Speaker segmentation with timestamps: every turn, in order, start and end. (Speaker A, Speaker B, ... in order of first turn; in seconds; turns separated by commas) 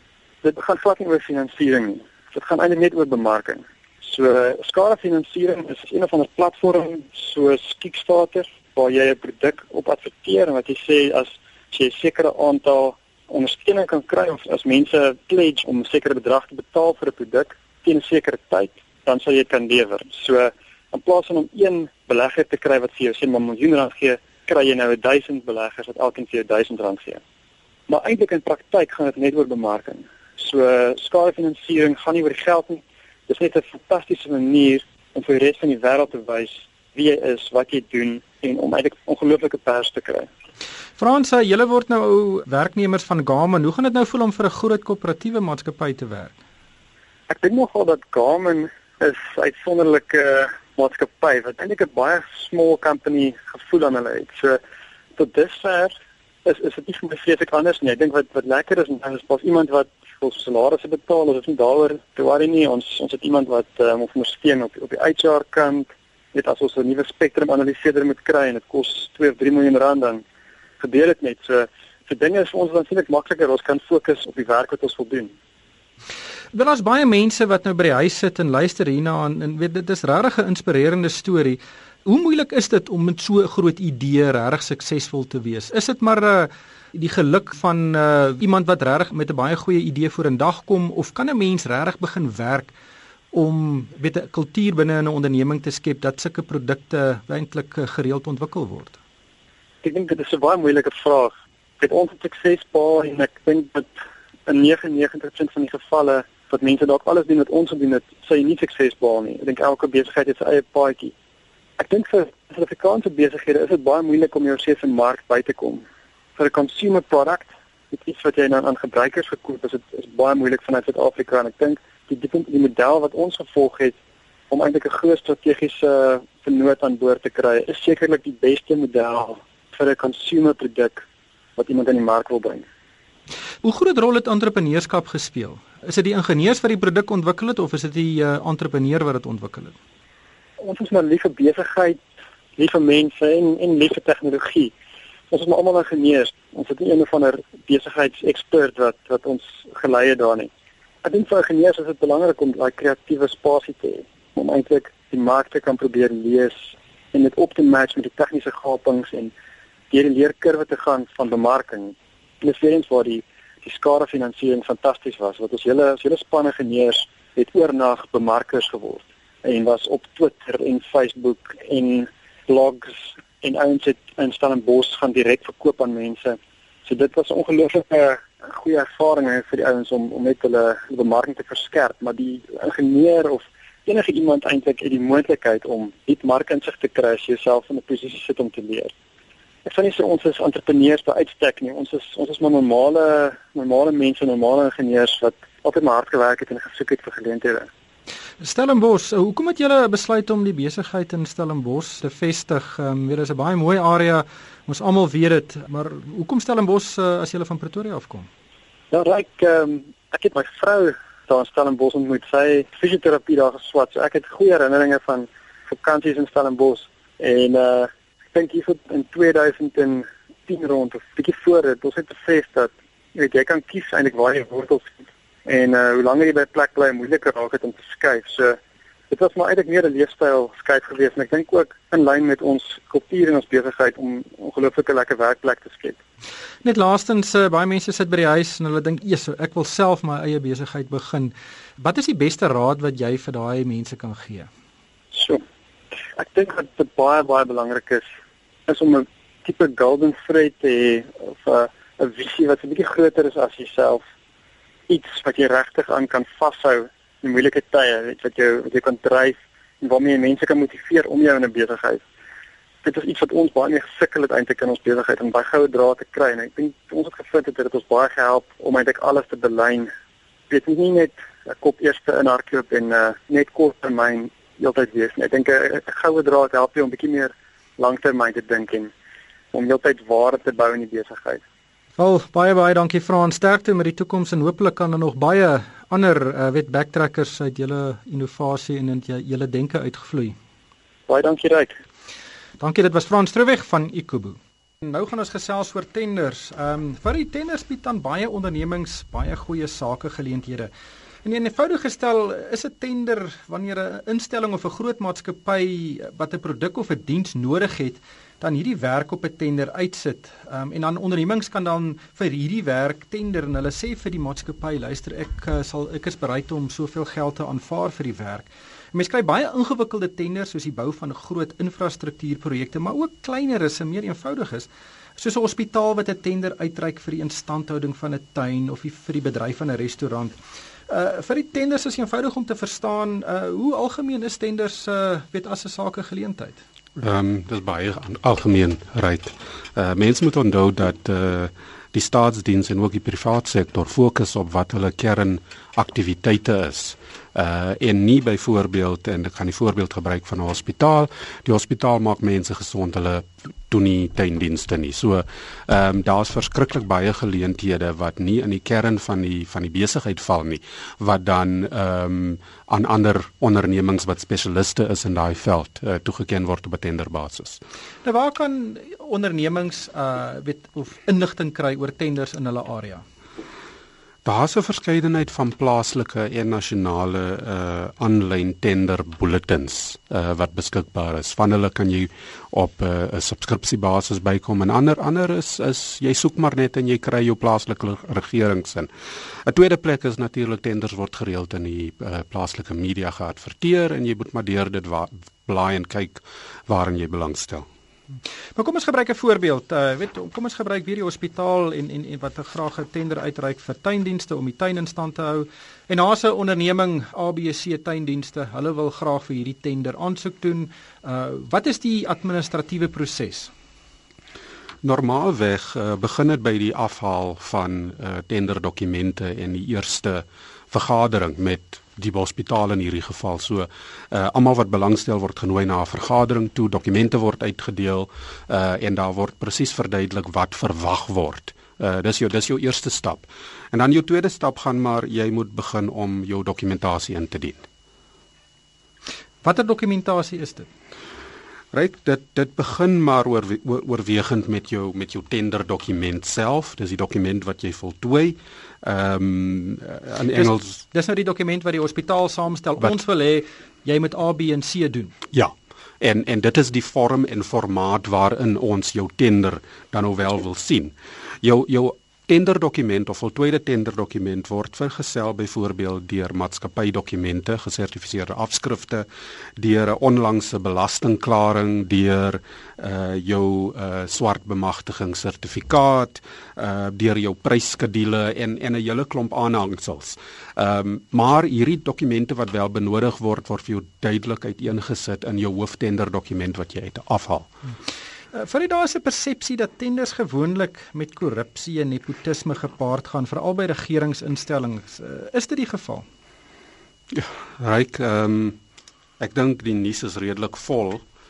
Speaker A: 0.4-27.2, Speaker A: 27.9-40.3, Speaker B: 41.0-46.4, Speaker A: 47.3-54.6, Speaker A: 55.2-55.9, Speaker A: 56.5-70.2, Speaker A: 70.8-75.3, Speaker B: 76.5-92.7, Speaker B: 93.3-99.0, Speaker A: 99.8-103.9, Speaker A: 104.5-111.1, Speaker A: 111.8-115.8, Speaker A: 116.4-124.0, Speaker A: 124.5-131.0, Speaker A: 131.6-132.7, Speaker B: 133.6-139.7, Speaker A: 140.6-142.0, Speaker A: 142.6-144.7, Speaker A: 145.3-150.5, Speaker A: 151.0-159.3, Speaker A: 159.9-188.9, Speaker A: 189.7-197.7, Speaker B: 198.4-208.3, Speaker A: 208.9-228.6, Speaker A: 229.1-236.0, Speaker B: 236.6-244.5, Speaker A: 245.1-245.4, Speaker A: 246.2-248.1, Speaker A: 248.7-254.0, Speaker A: 254.9-262.0, Speaker A: 262.8-269.9, Speaker A: 270.5-278.9, Speaker A: 279.5-281.4, Speaker B: 282.0-290.4, Speaker A: 291.1-291.8, Speaker B: 292.6-300.7, Speaker B: 301.2-330.4, Speaker B: 330.9-336.6, Speaker C: 337.0-367.6, Speaker B: 368.1-373.0, Speaker C: 374.2-388.9, Speaker C: 389.5-397.7, Speaker B: 398.6-413.5, Speaker C: 414.8-437.7, Speaker B: 439.4-440.7, Speaker C: 441.7-450.8, Speaker B: 450.4-455.1, Speaker C: 455.3-469.1, Speaker C: 469.6-487.5, Speaker B: 488.3-496.1, Speaker C: 497.1-498.6, Speaker C: 499.2-501.0